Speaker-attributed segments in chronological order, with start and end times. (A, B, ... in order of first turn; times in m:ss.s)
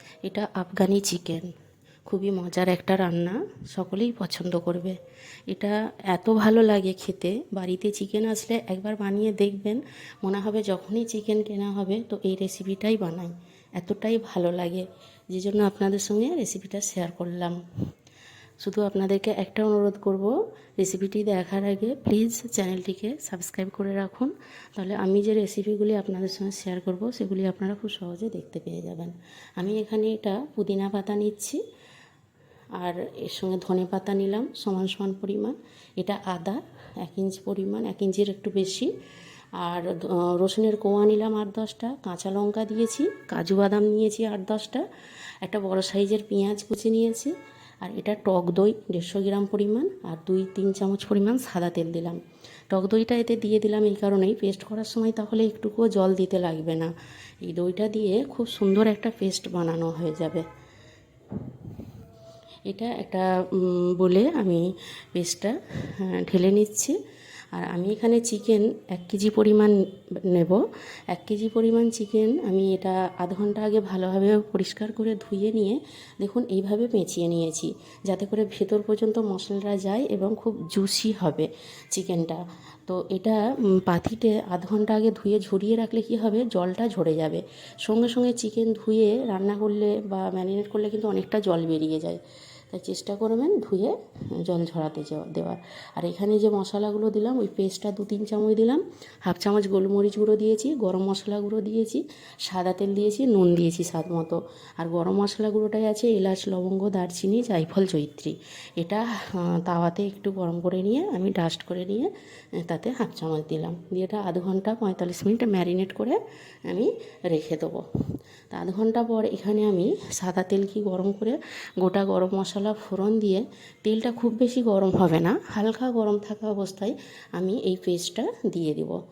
0:00.2-0:01.5 A
0:02.1-0:17.6 A
0:18.6-0:31.6 A
0:32.8-0:38.9 A
0:39.6-0:44.8 A
0:45.4-0:52.2 A
0:52.7-0:56.9 A
0:57.4-1:00.4 A
1:01.4-1:01.7 A
1:02.7-1:07.0 A
1:07.5-1:52.1 A
1:52.6-1:57.8 A
1:58.5-2:09.0 A